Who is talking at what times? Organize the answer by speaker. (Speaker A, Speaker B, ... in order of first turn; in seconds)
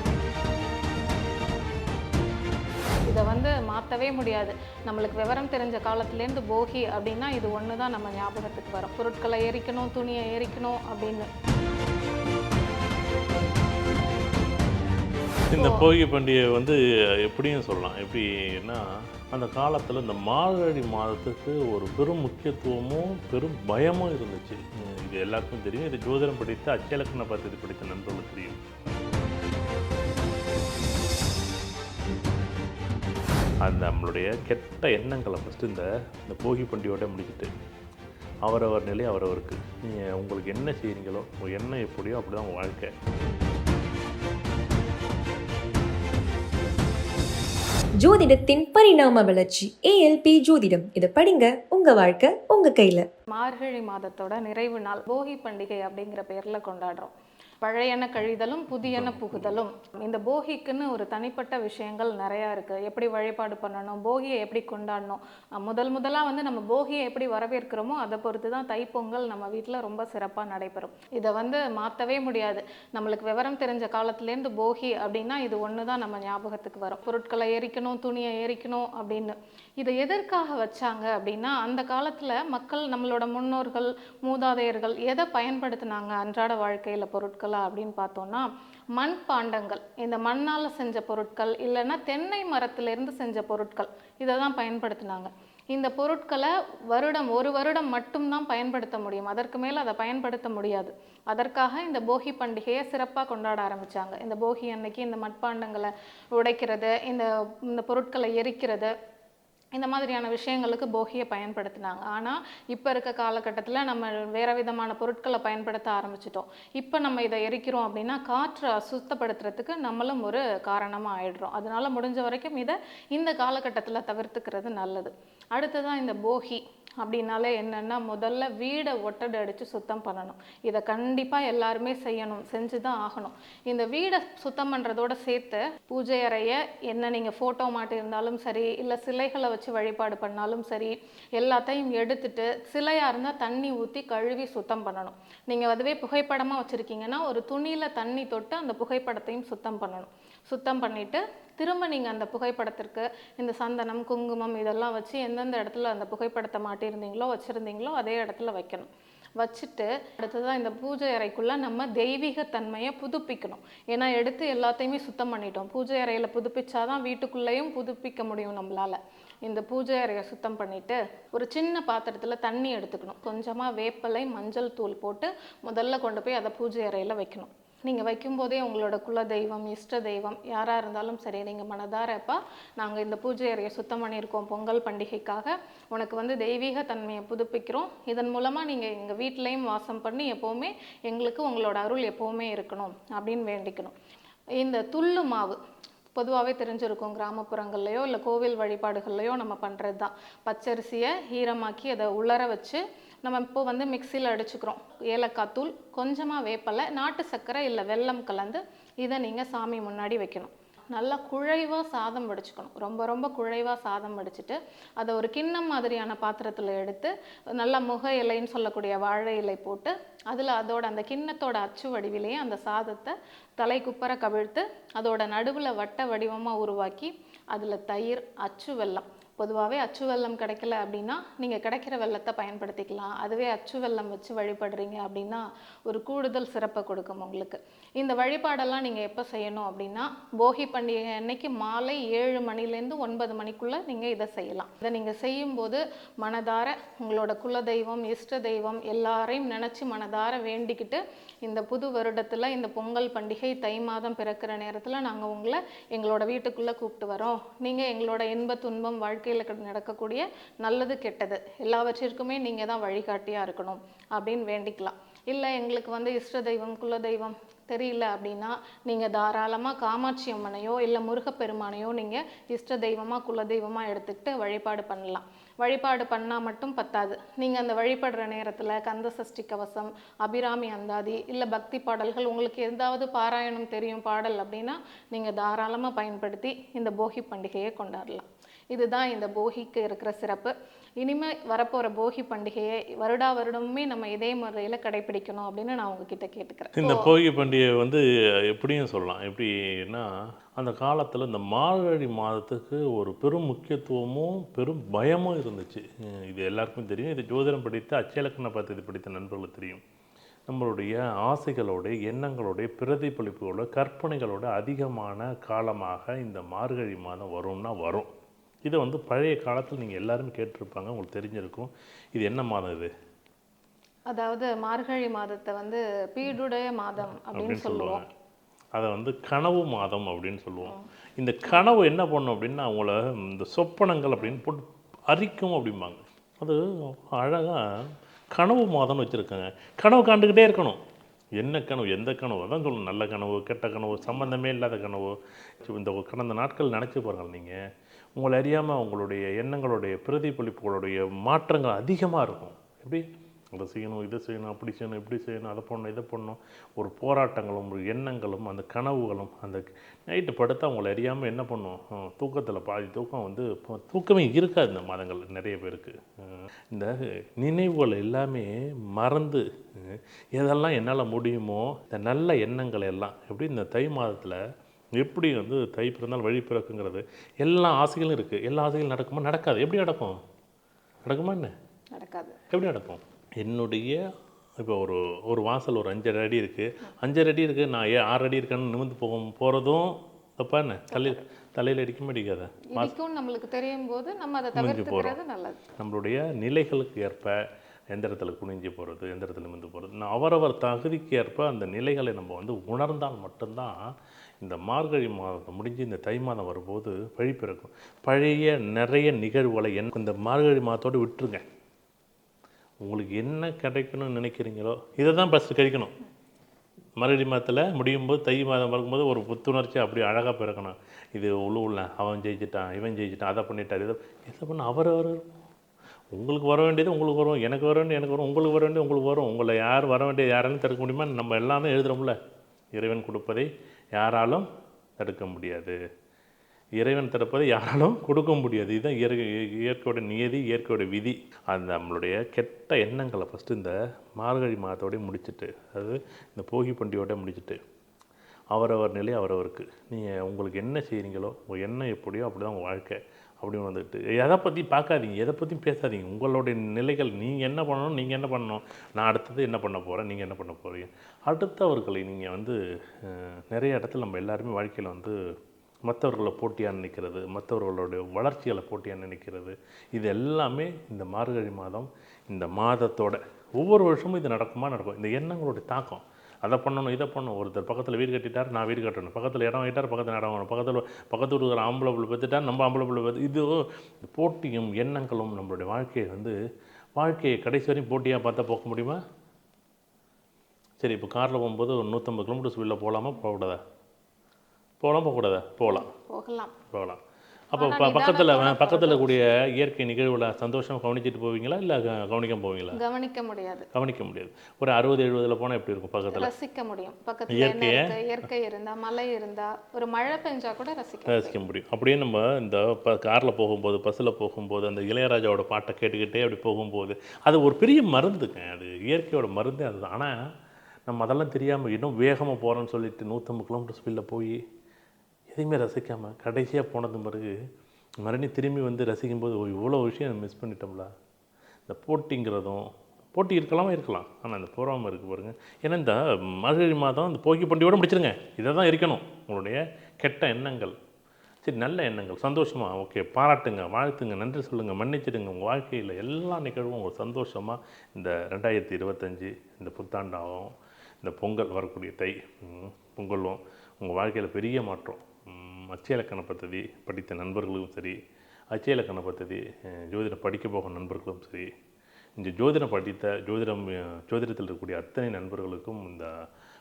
Speaker A: 3.1-11.3, 15.6-15.8, 53.3-108.9, 109.7-193.9, 194.6-195.6, 196.1-297.1, 324.1-328.0, 381.9-382.4, 390.9-391.2, 392.7-395.6, 495.7-496.5, 497.6-499.2, 502.7-503.7, 506.1-511.4
Speaker B: 15.5-28.6, 33.6-37.5, 38.4-42.9, 58.8-59.6, 296.8-309.8, 310.5-318.1, 318.6-322.9, 327.3-328.0, 328.7-340.8, 341.4-347.6, 348.1-353.0, 353.5-374.4, 375.0-380.2, 381.1-381.5, 382.5-384.0, 384.6-392.9, 394.6-395.2, 395.8-397.4, 397.9-403.7, 404.4-411.4, 412.8-415.9, 417.0-425.3, 426.1-432.2, 432.7-434.5, 435.0-435.8, 436.8-447.6, 448.5-465.1, 465.9-486.3, 486.9-489.0, 490.8-493.6, 494.8-495.9, 496.7-497.0, 497.5-502.8, 503.7-506.3, 507.3-507.9, 511.1-520.1, 520.9-524.4, 525.3-527.3, 528.0-530.9, 531.7-540.7, 541.4-558.0, 558.5-561.5, 562.2-566.1
Speaker C: 48.0-53.1